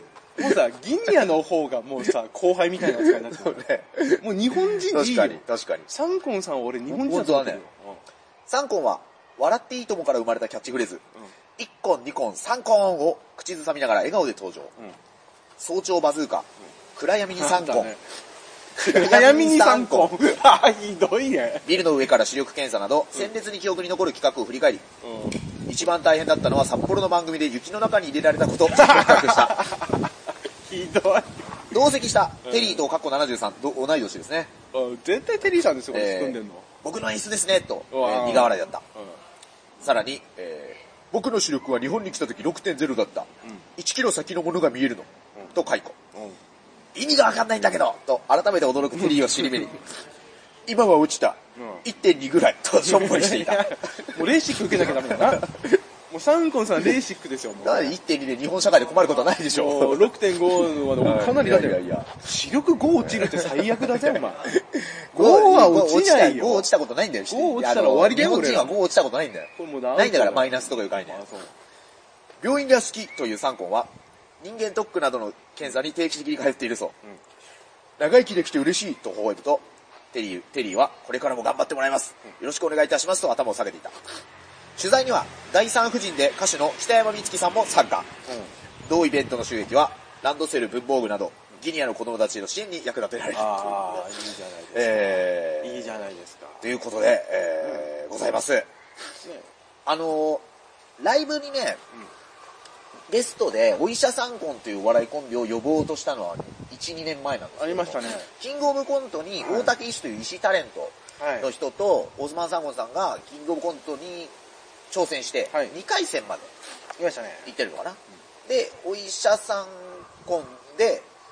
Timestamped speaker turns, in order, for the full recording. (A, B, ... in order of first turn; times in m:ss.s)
0:00.4-0:03.6 A
0:02.9-0:05.9 B
0:04.2-0:08.0 A
0:06.9-0:07.6 B
0:08.5-0:11.0 B
0:11.6-0:14.7 B
0:15.6-0:17.9 B
0:17.4-0:18.0 A
0:18.8-0:20.2 B
0:18.8-0:21.8 A
0:21.6-0:24.8 B
0:25.0-0:25.4 A
0:25.7-0:29.7 B
0:28.7-0:31.5 A
0:31.7-0:34.5 B
0:32.4-0:32.9 A
0:34.7-0:36.7 A
0:35.9-0:38.8 B
0:37.9-0:39.2 A
0:39.8-0:46.0 B
0:46.1-0:46.4 A
0:47.0-0:49.9 B
0:50.7-0:54.2 B
0:51.6-0:51.9 A
0:52.8-0:55.6 A
0:55.0-0:55.8 B
0:56.1-0:58.0 A
0:57.6-1:02.2 B
0:59.1-1:04.6 A
1:03.0-1:11.2 B
1:05.1-1:06.7 A
1:07.3-1:08.8 A
1:09.6-1:11.5 A
1:12.4-1:17.0 B
1:18.0-1:24.0 B
1:24.8-1:28.1 B
1:28.3-1:28.5 A
1:28.8-1:34.1 B
1:33.3-1:36.7 A
1:34.7-1:36.0 B
1:36.6-1:38.7 B
1:37.6-1:37.9 A
1:39.2-1:39.5 A
1:39.9-1:40.4 B
1:41.0-1:41.8 B
1:43.1-1:54.3 B
1:47.6-1:48.3 A
1:49.4-1:49.7 A
1:51.2-1:51.5 A
1:54.9-1:56.5 B
1:57.0-1:57.5 A
1:57.5-2:01.1 B